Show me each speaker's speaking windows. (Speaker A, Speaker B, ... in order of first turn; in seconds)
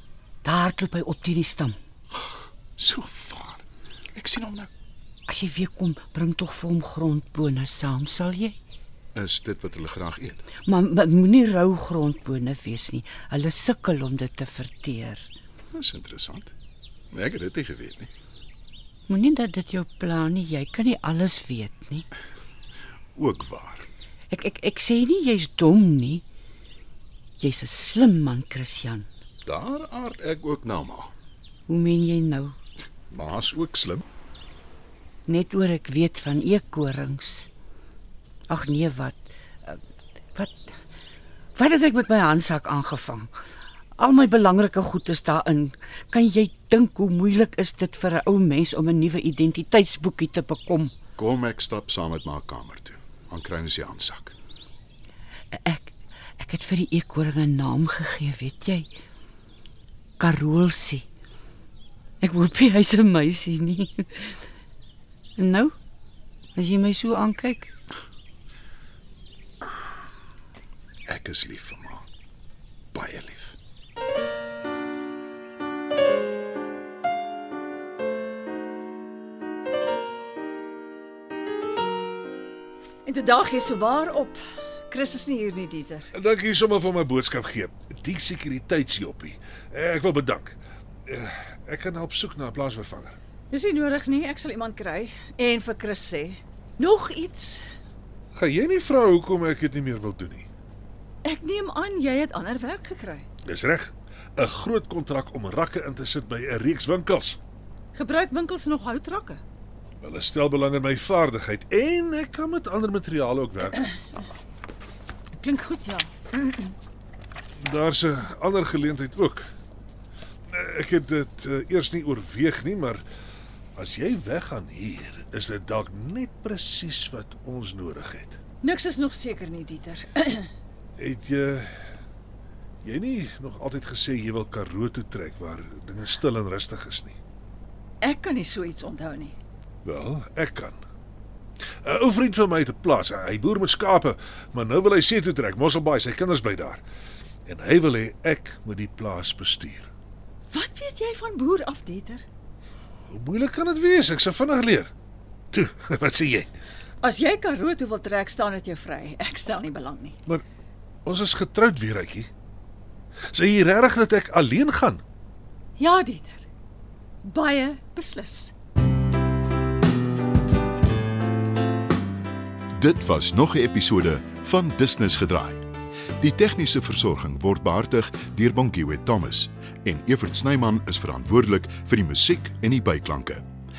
Speaker A: 0.4-1.8, 5.3-8.6, 10.7-15.3, 19.1-22.1, 24.3-26.2, 27.4-29.1, 31.7-32.6, 35.3-37.5, 38.5-39.8, 40.4-40.7, 41.6-43.3, 44.0-50.9, 55.5-58.9, 60.2-61.0, 62.2-64.3, 65.4-65.8, 66.5-67.7
Speaker B: 2.8-4.7, 9.2-10.4, 15.7-16.5, 17.1-18.1, 23.1-23.9, 29.4-31.1, 33.1-34.0, 51.2-54.4, 71.1-72.1, 72.9-73.6, 172.7-175.7, 176.2-183.5
Speaker C: 83.1-86.1, 93.5-97.7, 101.2-103.3, 108.0-109.4, 115.4-116.7, 128.6-130.5, 138.0-139.3, 150.5-152.2, 157.0-160.2, 165.8-166.5, 167.2-168.5
Speaker D: 86.1-93.2, 98.3-100.5, 103.5-107.4, 110.0-113.9, 117.6-119.5, 120.5-123.0, 123.8-128.4, 131.0-131.9, 132.8-137.2, 139.8-140.8, 141.8-146.8, 147.5-149.9, 153.1-154.9, 155.5-156.5, 161.1-162.3, 163.3-165.0